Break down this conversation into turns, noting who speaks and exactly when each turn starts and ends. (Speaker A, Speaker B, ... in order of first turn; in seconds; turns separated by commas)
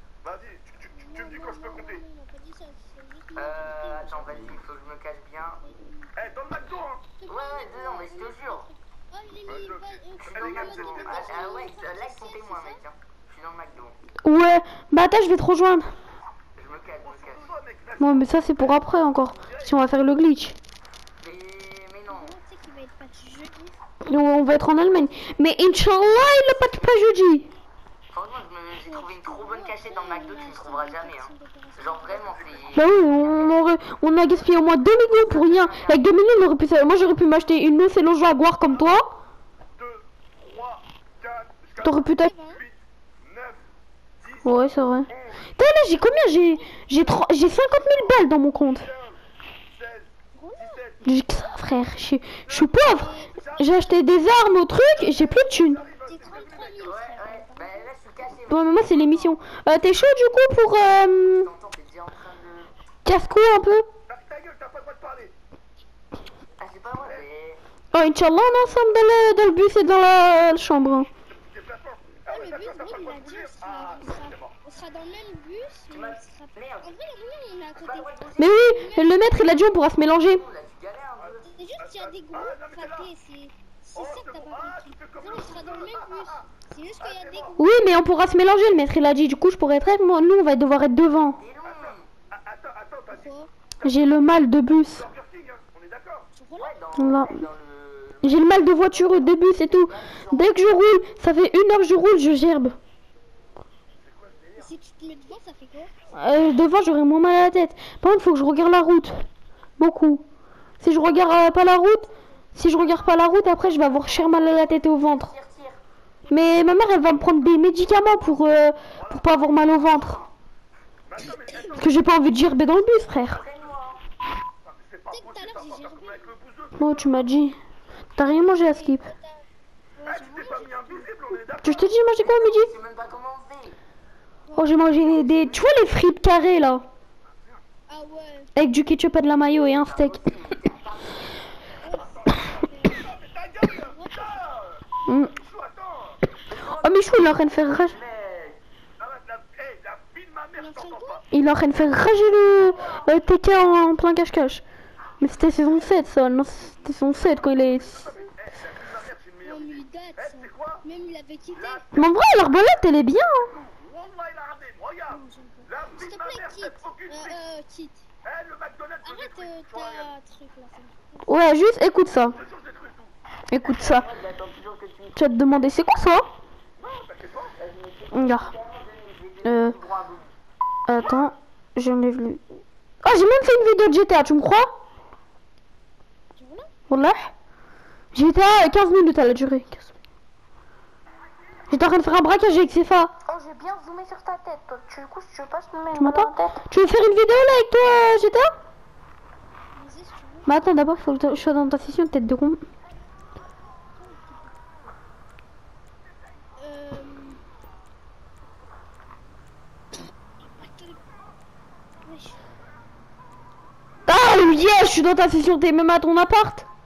Speaker A: 0.2-2.0, Speaker B: 0.9-4.6, Speaker C: 3.4-5.6, Speaker B: 5.6-6.3, Speaker A: 6.2-7.0, Speaker B: 7.1-12.8, Speaker C: 7.3-8.7, Speaker A: 9.5-11.6, Speaker C: 10.2-14.0, Speaker D: 14.2-15.9, Speaker C: 16.5-17.5, Speaker A: 17.1-18.4, Speaker D: 18.0-20.6, Speaker C: 21.2-22.3, Speaker B: 22.1-23.8, Speaker D: 24.0-27.5, Speaker C: 25.0-26.2, Speaker C: 28.1-33.6, Speaker B: 28.8-32.7, Speaker D: 32.7-39.1, Speaker C: 35.1-36.1, Speaker A: 40.5-42.0, Speaker D: 41.8-42.3, Speaker B: 42.1-42.6, Speaker A: 43.2-43.5, Speaker D: 44.4-48.9, Speaker A: 49.8-50.0, Speaker B: 50.4-50.8, Speaker A: 50.6-50.9, Speaker D: 51.0-55.8, Speaker B: 53.0-53.3, Speaker A: 53.4-53.8, Speaker A: 55.0-56.9, Speaker B: 56.0-57.9, Speaker C: 56.8-59.4, Speaker D: 58.5-61.5, Speaker C: 61.2-62.7, Speaker D: 63.0-63.9, Speaker A: 64.1-65.3, Speaker C: 66.6-67.6, Speaker D: 67.9-71.1, Speaker A: 71.4-74.3, Speaker B: 72.3-79.3, Speaker C: 75.9-76.9, Speaker C: 77.8-78.6, Speaker D: 78.4-80.4, Speaker C: 80.3-81.4, Speaker B: 81.4-87.8, Speaker A: 81.9-83.0, Speaker A: 84.0-86.2, Speaker A: 87.1-87.5, Speaker D: 87.6-91.4, Speaker C: 91.4-92.1, Speaker A: 92.3-93.2, Speaker B: 93.1-93.5, Speaker D: 93.8-95.1, Speaker A: 95.0-96.3, Speaker B: 96.3-96.8, Speaker C: 96.6-100.7, Speaker D: 97.0-97.4, Speaker D: 98.2-102.8, Speaker A: 104.1-104.6, Speaker B: 104.6-105.9, Speaker D: 106.2-109.2, Speaker D: 109.8-110.2, Speaker D: 110.8-115.3, Speaker C: 114.6-115.8, Speaker D: 116.3-120.2, Speaker A: 119.0-119.3, Speaker C: 119.8-120.3, Speaker A: 121.1-121.9, Speaker D: 121.7-123.4, Speaker C: 123.3-124.0, Speaker A: 124.7-126.8, Speaker B: 125.1-126.4, Speaker D: 126.8-127.6, Speaker D: 128.2-129.1, Speaker B: 128.5-131.2, Speaker A: 130.1-131.9, Speaker D: 131.6-132.7, Speaker C: 132.2-133.8, Speaker B: 134.5-134.8, Speaker D: 134.6-136.8, Speaker C: 135.0-135.7, Speaker B: 137.9-138.5, Speaker D: 138.6-140.2, Speaker C: 139.8-141.4, Speaker B: 141.8-143.1, Speaker A: 143.0-144.7, Speaker B: 143.8-144.4, Speaker D: 145.1-145.3, Speaker A: 145.4-146.2, Speaker C: 146.5-148.6, Speaker D: 146.8-148.0, Speaker A: 149.0-151.2, Speaker B: 150.6-151.2, Speaker D: 151.3-154.6, Speaker D: 155.2-158.1, Speaker A: 157.8-159.7, Speaker B: 159.4-161.9, Speaker A: 160.3-160.8, Speaker D: 161.9-163.5, Speaker A: 163.6-165.2, Speaker B: 165.1-168.0, Speaker A: 165.8-167.3, Speaker A: 168.3-170.0, Speaker B: 169.0-171.2, Speaker D: 171.3-172.4, Speaker A: 172.4-173.1, Speaker D: 173.5-174.1, Speaker C: 173.7-175.2, Speaker D: 175.1-176.3, Speaker A: 176.8-177.5, Speaker C: 177.6-180.3, Speaker D: 178.1-178.5, Speaker D: 179.4-179.8, Speaker D: 180.9-182.4, Speaker D: 183.0-184.7, Speaker B: 186.4-186.7, Speaker D: 186.9-187.3, Speaker D: 188.1-189.9, Speaker D: 191.7-193.1, Speaker E: 193.2-196.6, Speaker D: 195.9-198.5, Speaker B: 199.8-200.5, Speaker D: 200.4-202.6, Speaker B: 204.0-204.5, Speaker B: 206.6-207.4, Speaker B: 210.4-211.1, Speaker B: 212.0-212.4, Speaker D: 214.1-216.7